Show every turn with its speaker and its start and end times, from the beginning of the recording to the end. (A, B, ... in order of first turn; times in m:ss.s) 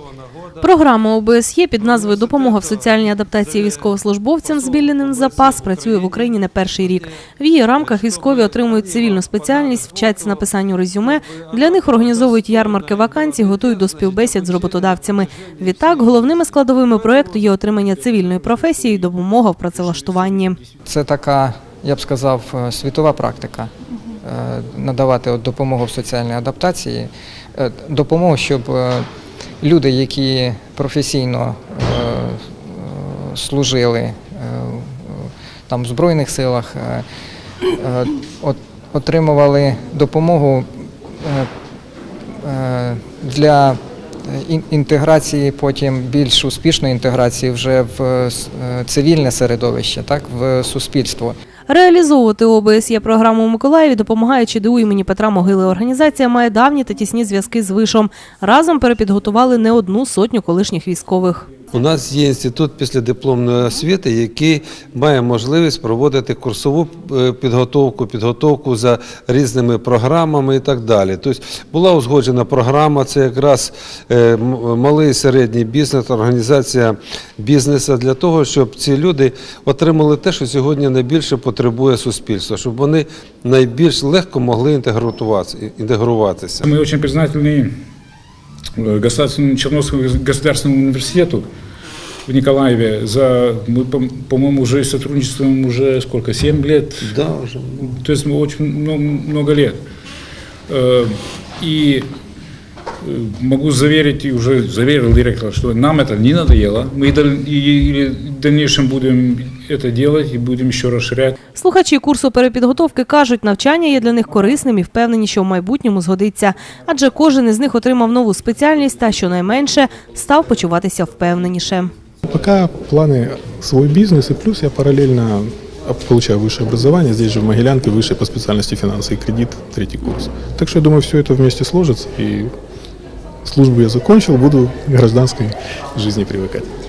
0:00.6-0:20.6 A
0:01.8-0:07.0 B
0:07.8-0:10.6 B
0:11.2-0:16.3 B
0:20.8-0:23.7 C
0:24.2-0:29.0 C
0:29.6-0:37.0 C
0:37.8-0:41.5 C
0:42.4-0:51.3 C
0:51.7-1:01.5 A
1:01.7-1:26.6 B
1:26.6-1:27.7 D
1:28.8-1:31.4 D
1:32.3-1:37.2 D
1:37.0-1:37.8 B
1:37.8-1:39.8 D
1:40.7-1:42.1 D
1:43.0-1:51.4 D
1:51.5-2:01.9 A
2:02.2-2:12.5 E
2:13.4-2:16.7 E